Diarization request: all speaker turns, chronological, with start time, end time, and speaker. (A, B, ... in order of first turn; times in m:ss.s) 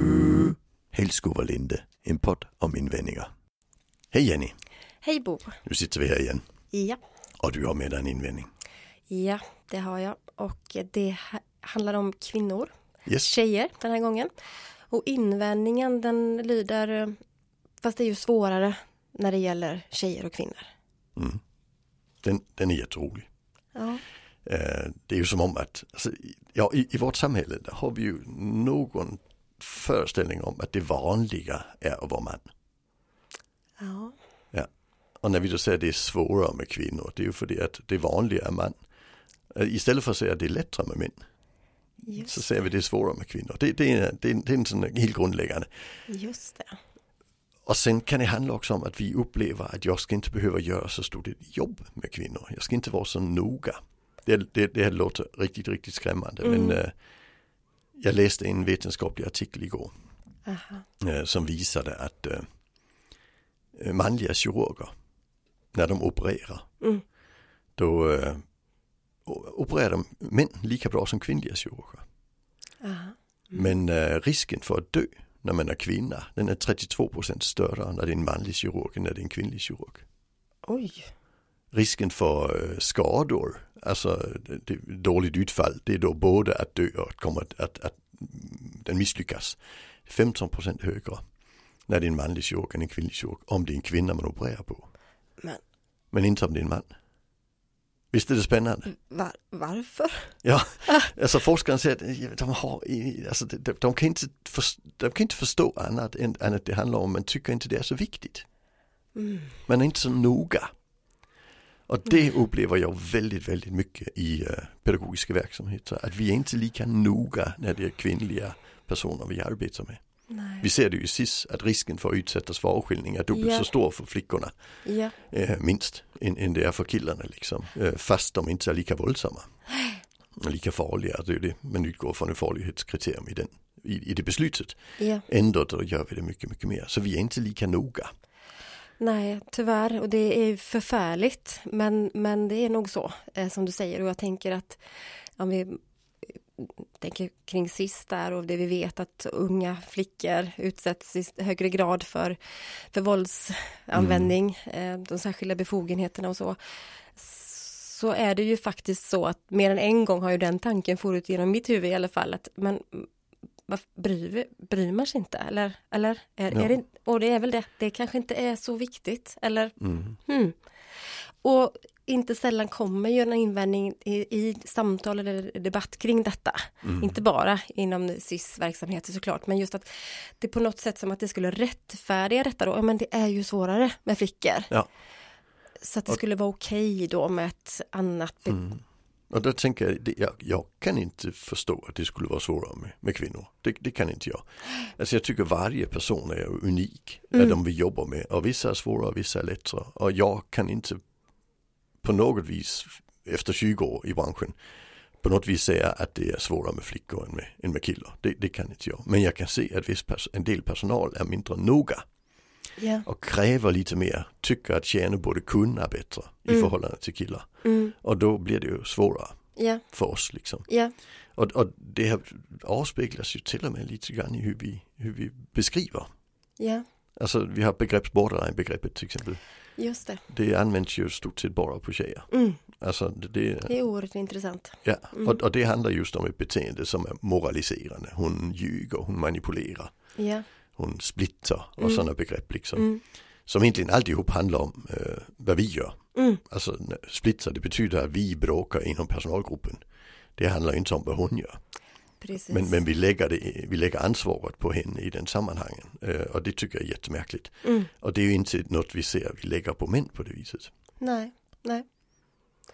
0:00.3-0:03.3 A
0:04.1-0:04.6 A
0:05.0-0:05.6 B
0:05.6-0:06.4 A
0:06.7-0:07.0 B
0:07.4-0:08.5 A
0:09.1-0:14.3 B
0:14.9-0:17.2 B
0:17.8-0:20.7 B
0:22.2-0:23.3 A
0:23.8-0:24.0 B
0:24.4-0:32.5 A
0:33.8-0:34.2 B
0:35.2-0:38.8 A
0:39.5-0:41.2 A
0:42.0-0:42.4 B
0:42.2-0:45.7 A
0:46.1-0:46.8 B
0:47.7-0:56.9 A
0:56.4-0:56.8 B
0:58.0-0:59.9 A
1:00.5-1:00.8 B
1:01.0-1:02.5 A
1:03.8-1:04.9 A
1:05.7-1:06.7 A
1:07.8-1:08.4 A
1:09.3-1:12.0 A
1:12.8-1:13.7 B
1:13.5-1:20.0 A
1:20.6-1:21.1 B
1:21.7-1:31.2 A
1:31.9-1:34.9 A
1:36.1-1:36.9 A
1:38.1-1:38.9 A
1:38.9-1:41.1 B
1:40.4-1:48.4 A
1:49.2-1:49.5 B
1:49.7-1:50.7 A
1:51.9-2:00.0 A
2:00.3-2:00.7 B
2:00.6-2:04.5 A
2:03.3-2:03.7 B
2:04.8-2:05.2 B
2:05.3-2:09.5 A
2:10.4-2:18.1 A
2:15.0-2:15.2 B
2:19.0-2:24.8 B
2:25.4-2:25.8 B
2:26.3-2:32.4 B
2:32.9-2:36.6 B
2:34.0-2:34.3 A
2:37.2-2:43.1 B
2:43.7-2:50.6 B
2:49.8-2:50.2 A
2:51.4-3:04.7 B
2:56.8-2:57.2 A
3:05.8-3:08.7 B
3:08.5-3:08.8 A
3:09.3-3:21.0 A
3:17.3-3:17.6 B
3:22.0-3:24.6 A
3:25.2-3:32.0 A
3:32.8-3:33.0 B
3:33.1-3:37.5 A
3:37.6-3:37.9 B
3:38.0-3:39.4 A
3:39.6-3:39.8 B
3:39.9-3:40.7 A
3:40.7-3:40.9 B
3:41.4-3:46.1 A
3:46.6-3:46.8 B
3:47.2-3:49.4 A
3:49.8-3:50.2 B
3:50.3-3:53.7 A
3:52.3-3:52.6 B
3:53.7-3:55.4 B
3:54.8-3:59.9 A
4:00.2-4:00.4 B
4:00.8-4:02.9 A
4:02.8-4:03.0 B
4:03.5-4:09.8 A
4:06.2-4:06.4 B
4:10.4-4:11.6 A
4:12.2-4:12.7 B
4:12.5-4:20.7 A
4:17.6-4:17.9 B
4:21.0-4:21.9 B